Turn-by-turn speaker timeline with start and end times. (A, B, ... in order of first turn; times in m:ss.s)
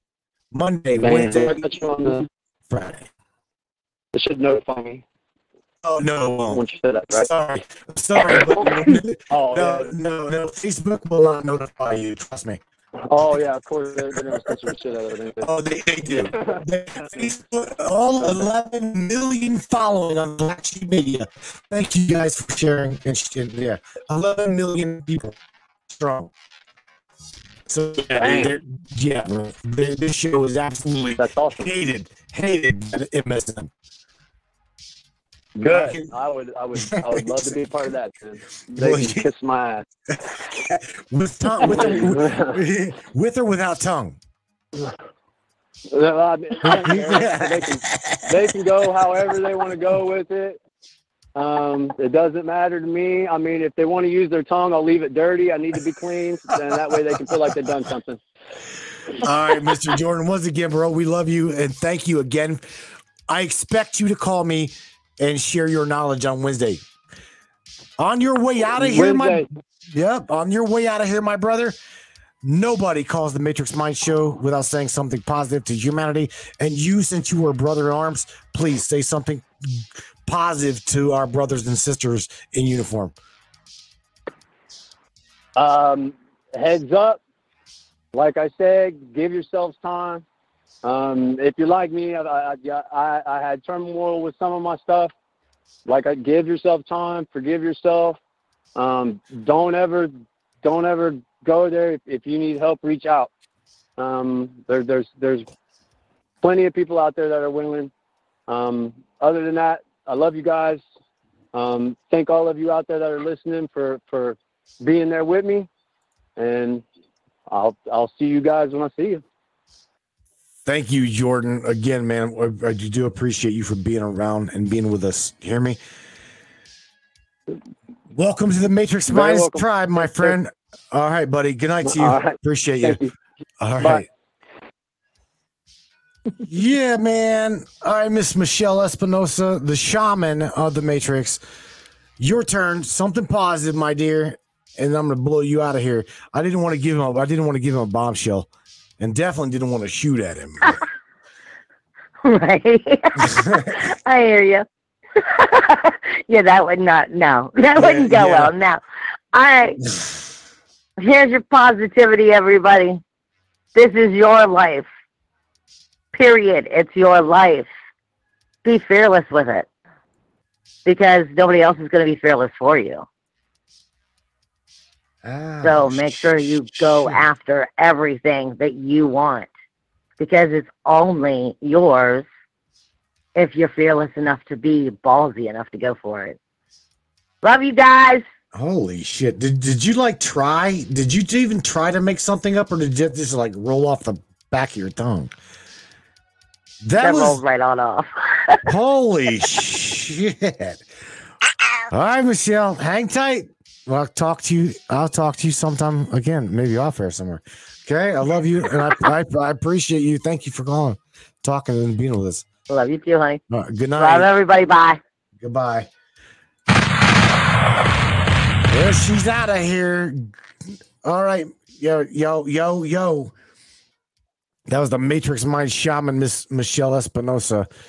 0:00.5-0:01.6 A
0:01.0-0:02.3 B
0:02.7-0:03.1 A
0:04.1-0:05.0 B
0:05.8-0:12.6 A
0:06.5-0:07.3 B
0:08.2-0:09.9 B
0:13.1-0:15.5 B
0:14.1-0:14.6 A
0:15.4-0:26.3 A
0:16.0-0:17.3 B
0:27.7-0:33.7 A
0:28.2-0:28.5 B
0:31.1-0:31.7 B
0:35.6-0:39.8 B
0:35.6-0:36.1 A
0:36.8-0:37.6 A
0:38.7-0:39.3 A
0:40.1-0:44.2 A
0:41.6-0:42.6 B
0:45.9-0:50.6 B
0:46.6-0:48.7 A
0:51.3-0:58.2 B
0:59.2-1:02.7 A
1:03.3-1:06.8 A
1:08.0-1:11.8 A
1:08.7-1:09.5 B
1:12.4-1:23.1 A
1:25.6-1:27.2 B
1:28.1-1:30.2 B
1:30.8-1:35.1 B
1:35.8-1:38.2 B
1:38.8-1:43.3 B
1:44.0-1:45.5 B
1:46.4-1:47.9 B
1:48.5-1:50.8 B
1:51.5-1:55.7 B
1:56.4-1:56.8 B
1:57.5-1:59.2 B
2:00.6-2:05.8 A
2:08.1-2:13.0 A
2:09.1-2:10.4 B
2:11.8-2:13.1 B
2:13.6-2:14.0 A
2:16.4-2:21.4 A
2:22.2-2:28.5 A
2:29.0-2:30.8 A
2:32.2-2:34.6 C
2:33.2-2:33.8 A
2:35.2-2:38.8 C
2:37.8-2:38.5 A
2:39.3-2:39.8 C
2:41.0-2:43.0 C
2:43.7-2:44.9 C
2:46.1-2:47.7 C
2:48.6-2:49.7 C
2:50.8-2:53.0 C
2:55.2-2:57.2 A
2:55.6-2:59.5 C
3:00.2-3:02.2 C
3:03.3-3:06.4 C
3:07.4-3:08.2 C
3:08.5-3:15.3 A
3:16.8-3:17.4 A
3:17.0-3:18.7 C
3:18.6-3:20.8 A
3:21.9-3:32.4 A
3:32.7-3:33.4 C
3:33.5-3:34.3 A
3:34.0-3:35.0 C
3:35.4-3:35.9 A
3:38.7-3:40.3 A
3:41.0-3:43.3 A
3:44.7-3:47.7 A